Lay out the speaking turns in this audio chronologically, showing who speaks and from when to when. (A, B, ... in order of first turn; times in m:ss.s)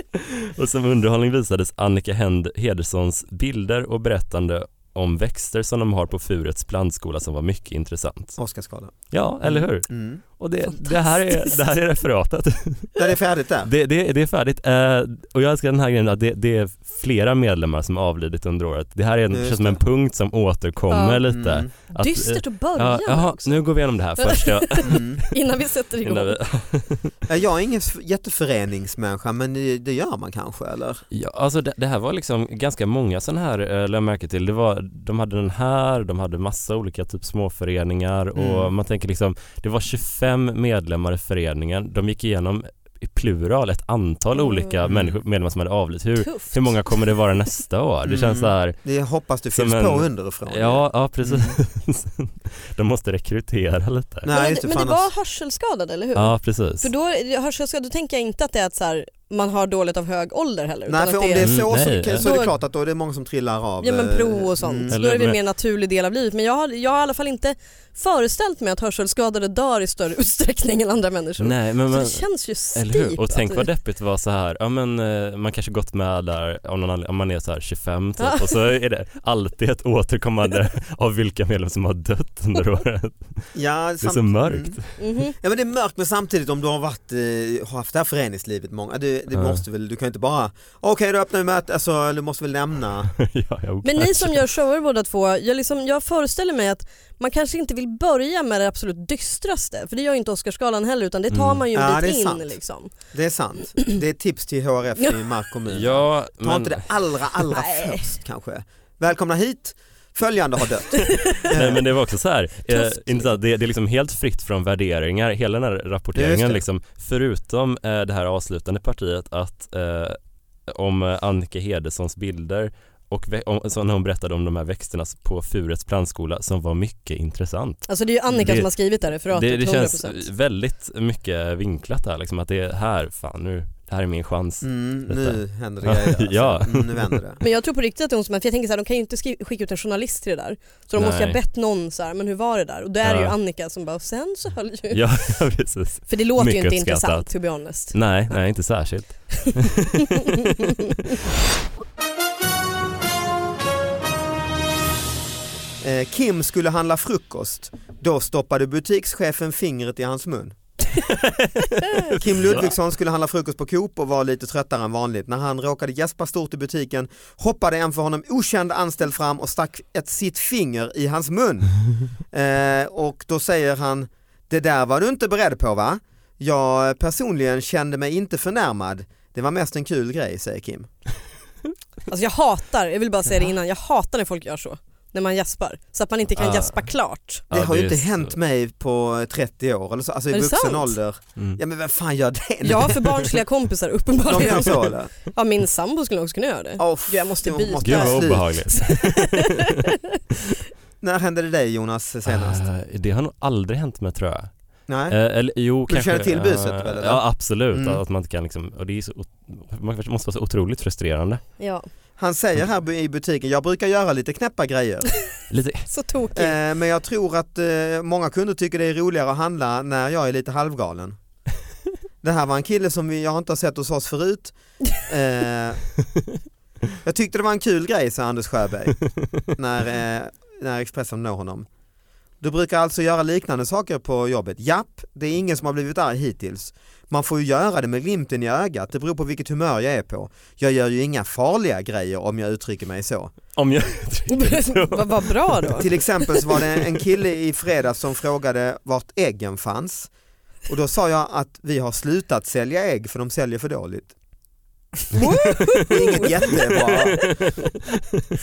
0:00.2-0:08.4 A
0:08.4-0:10.2 B
0:09.1-0:13.0 A
0:10.8-0:11.6 C
0:13.0-0:13.7 B
0:13.6-0:25.3 A
0:19.3-0:19.8 B
0:20.9-0:21.2 C
0:21.3-0:21.7 B
0:21.8-0:23.6 C
0:24.2-0:26.4 C
0:24.8-0:25.2 B
0:26.0-0:27.1 A
0:27.3-0:31.0 B
0:31.1-0:48.8 A
0:38.3-0:38.7 B
0:44.3-0:44.7 C
0:44.8-0:45.2 B
0:46.2-0:47.0 C
0:48.0-0:51.6 B
0:49.5-0:54.3 A
0:54.2-0:55.1 B
0:54.3-1:02.5 C
0:56.2-0:56.9 A
1:00.9-1:04.9 B
1:01.4-1:02.3 A
1:03.8-1:13.7 C
1:04.9-1:05.4 A
1:11.4-1:25.0 A
1:18.2-1:18.6 C
1:23.6-1:33.1 B
1:25.0-1:25.3 C
1:29.3-1:29.6 A
1:33.2-1:34.5 A
1:33.8-1:42.9 C
1:41.3-1:41.6 A
1:41.7-1:42.6 B
1:43.1-1:51.8 B
1:45.7-1:47.2 A
1:47.5-1:48.1 C
1:51.1-1:51.4 C
1:51.4-2:17.2 A
1:52.7-1:53.3 C
1:56.2-1:56.6 B
2:07.8-2:10.2 C
2:14.6-2:17.4 B
2:17.4-2:25.2 C
2:20.9-2:21.4 A
2:23.0-2:23.3 A
2:24.9-2:30.7 A
2:26.1-2:28.0 C
2:30.4-2:30.9 C
2:35.8-2:40.6 B
2:41.0-2:42.7 A
2:42.1-3:00.9 B
3:02.1-3:07.4 C
3:06.4-3:06.8 A
3:07.5-3:08.3 A
3:07.5-3:13.3 B
3:10.3-3:11.0 C
3:12.6-3:19.9 C
3:14.2-3:15.1 B
3:16.8-3:18.7 B
3:17.8-3:19.7 A
3:21.0-3:22.6 B
3:22.2-3:24.5 A
3:24.9-3:25.2 B
3:25.1-3:31.4 A
3:25.9-3:28.0 B
3:31.6-3:31.8 C
3:32.2-3:35.1 B
3:35.5-3:35.9 A
3:35.9-3:36.6 C
3:36.3-3:41.2 B
3:42.2-3:45.9 B
3:47.0-3:51.7 B
3:52.4-4:03.4 B
4:03.6-4:06.0 A
4:04.3-4:05.9 C
4:05.8-4:10.1 B
4:06.5-4:06.8 A
4:10.7-4:14.1 B
4:15.1-4:16.7 C
4:15.2-4:17.4 B
4:16.5-4:17.6 A